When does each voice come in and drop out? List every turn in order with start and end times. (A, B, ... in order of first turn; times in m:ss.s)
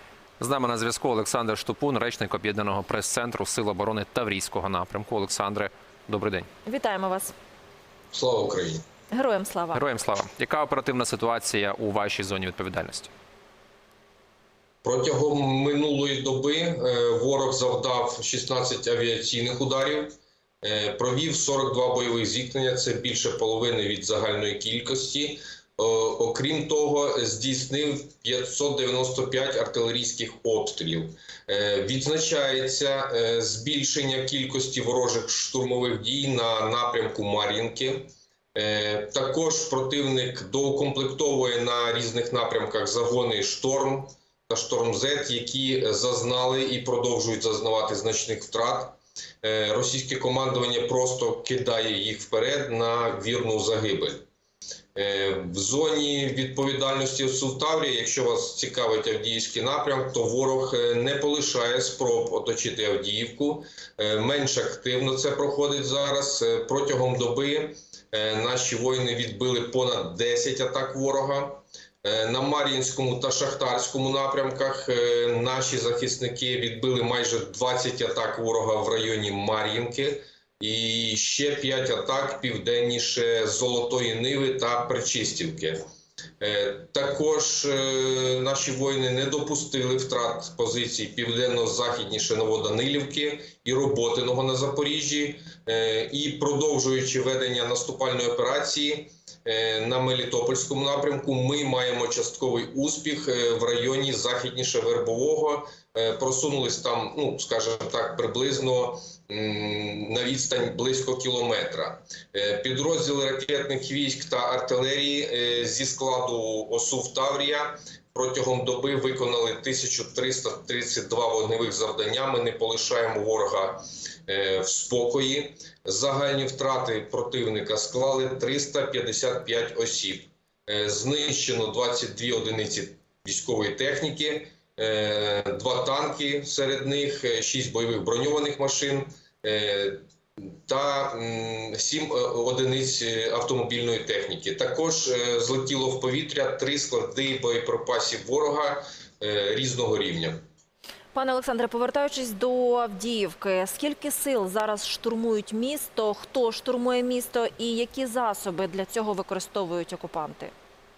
0:00.4-0:06.5 A
0:06.7-0:07.3 B
0:08.1-0:08.8 C
0:09.1-0:09.8 B
0:09.7-0:13.1 A
0:14.8-0:54.2 C
0:55.0-1:25.8 C
1:26.4-2:30.4 C
2:31.1-2:40.5 B